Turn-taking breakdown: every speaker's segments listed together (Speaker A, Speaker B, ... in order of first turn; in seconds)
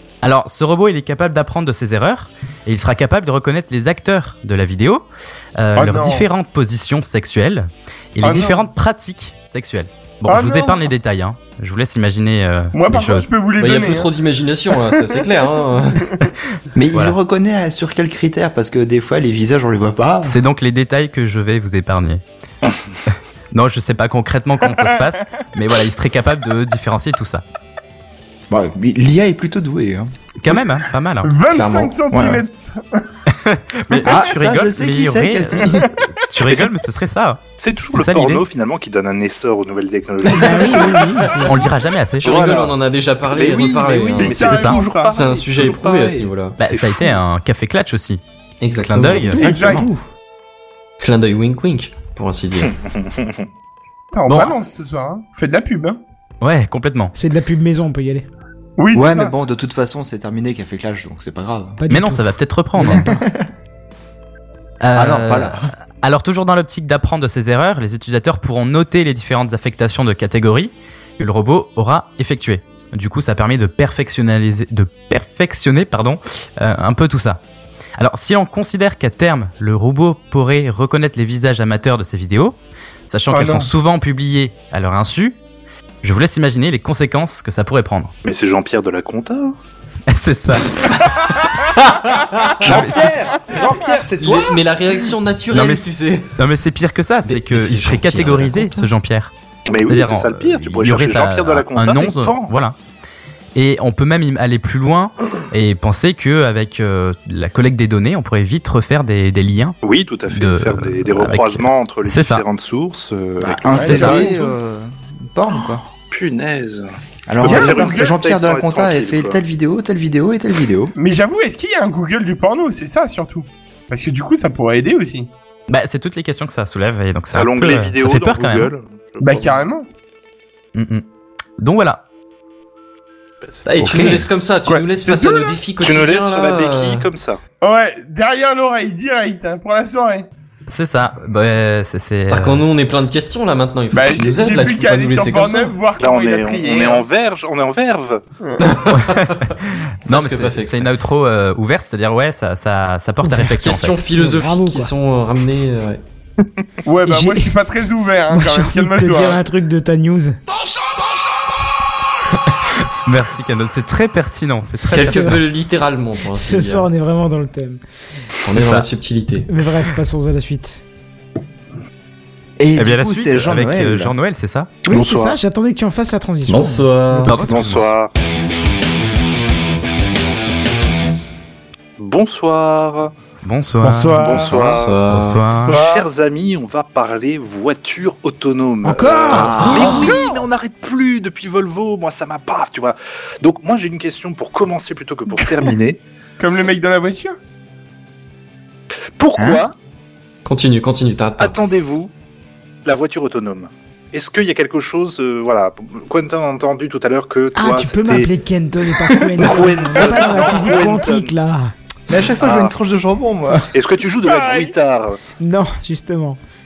Speaker A: 0.2-5.0, 5.6-13.3, 20.2-22.2, 23.5-27.4, 30.4-31.3, 33.4-35.7, 36.3-38.5, 41.5-42.5, 44.4-44.8, 46.6-48.2, 48.8-49.6, 54.3-54.5, 56.4-57.1, 61.9-63.1, 64.8-77.4, 78.0-85.3, 86.0-88.1, 90.1-91.4, 92.6-93.2, 95.5-99.3, 99.8-102.8, 103.5-109.8, 110.3-112.4, 125.7-128.7, 130.7-131.0, 131.6-132.0, 140.7-142.6, 149.0-154.0, 163.0-165.4, 168.5-168.9, 172.8-174.8, 177.2-177.8, 183.4-184.4, 185.1-185.9
Speaker B: 5.8-6.3, 8.2-8.7, 10.3-10.9, 12.7-14.1, 31.2-33.1, 40.3-41.4, 44.2-45.1, 49.3-49.9, 54.1-56.0, 58.8-59.3, 83.3-83.7, 113.7-114.4, 117.4-118.2, 121.0-125.3, 129.2-129.9, 134.7-135.6, 137.6-140.3, 143.9-147.1, 148.4-148.7, 156.8-159.4, 183.8-184.5, 185.7-186.0, 189.9-190.2, 196.4-197.4, 210.1-210.9, 214.2-214.7
Speaker C: 13.6-16.1, 31.5-31.9, 42.2-46.6, 48.6-49.4, 51.0-52.7, 92.1-92.6, 94.2-96.3, 97.2-98.9, 133.6-137.1, 142.3-145.7, 148.6-149.5, 150.1-150.9, 153.3-156.0, 164.9-166.9, 168.4-169.5, 176.5-177.4, 184.4-185.4, 189.6-190.0, 200.4-201.6
Speaker D: 16.7-20.4, 28.5-30.1, 32.1-32.4, 34.0-35.9, 49.3-50.0, 58.9-61.8, 62.8-63.5, 64.9-65.7, 113.4-115.9, 117.3-120.9, 133.8-134.2, 172.6-174.1, 189.3-190.1, 199.4-199.6, 212.1-213.7
Speaker E: 37.6-41.3, 42.2-42.7, 43.3-47.2, 52.7-53.4, 88.2-89.5, 92.6-94.6, 99.7-102.5, 109.8-114.4, 116.1-119.4, 127.3-129.6, 133.4-134.2, 135.8-137.4, 146.0-148.2, 174.9-175.4, 177.3-178.1, 182.0-183.1, 184.1-185.0, 185.7-196.0, 199.2-199.7, 201.4-202.1, 202.8-208.3, 209.3-211.3, 212.4-212.7, 213.7-215.2
Speaker F: 40.4-41.5, 57.1-58.2, 61.8-63.2, 154.1-154.9, 157.1-157.5, 158.3-160.4, 164.9-165.4, 166.3-167.8, 169.5-170.8, 174.8-177.3, 188.8-189.9, 207.5-211.7, 215.4-216.4